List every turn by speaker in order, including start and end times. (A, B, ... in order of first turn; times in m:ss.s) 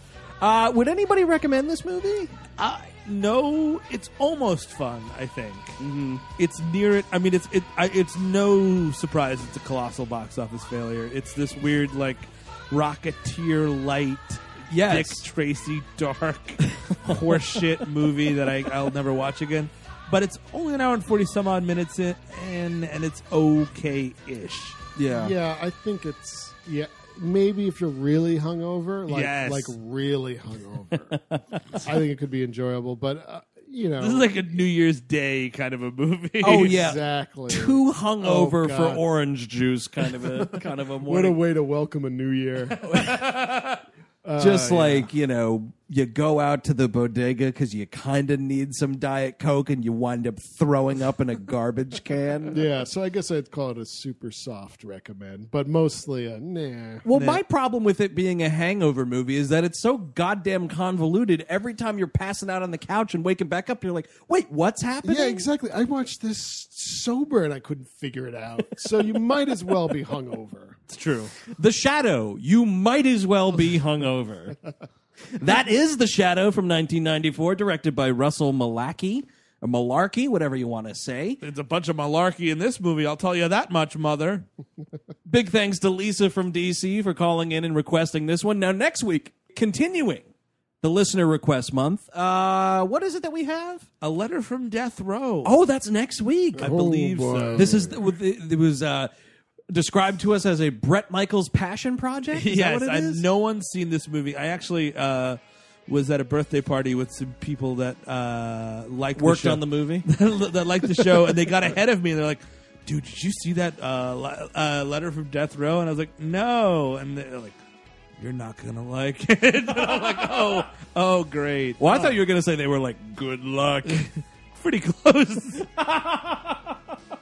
0:00.4-0:02.3 A
0:02.6-0:05.8 B
0:05.8-0:06.2 A
0:06.4-0:24.8 B
0:14.7-0:15.3 A
0:25.0-0:25.4 A
0:25.1-0:31.2 C
0:29.1-0:29.8 B
0:31.1-0:31.4 A
0:31.7-0:34.4 C
0:34.0-0:36.8 B
0:36.4-0:41.4 A
0:36.5-0:39.0 C
0:41.1-0:42.8 C
0:42.8-0:43.8 B
0:42.9-0:43.3 A
0:44.2-0:45.1 C
0:44.4-0:52.6 A
0:52.5-0:57.0 C
0:57.0-1:05.4 A
0:57.1-0:57.4 B
1:05.0-1:10.8 C
1:10.9-1:11.3 B
1:11.4-1:14.6 A
1:15.3-1:21.4 A
1:21.4-1:24.5 B
1:25.3-1:30.3 A
1:30.8-1:33.9 A
1:34.0-1:35.5 B
1:35.4-1:36.8 A
1:36.6-1:38.0 C
1:36.6-1:37.8 B
1:37.5-1:39.1 A
1:39.7-1:43.2 A
1:42.3-1:57.6 B
1:49.2-1:50.1 A
1:58.2-2:02.2 B
2:01.8-2:04.1 A
2:03.9-2:05.7 B
2:05.6-2:06.8 A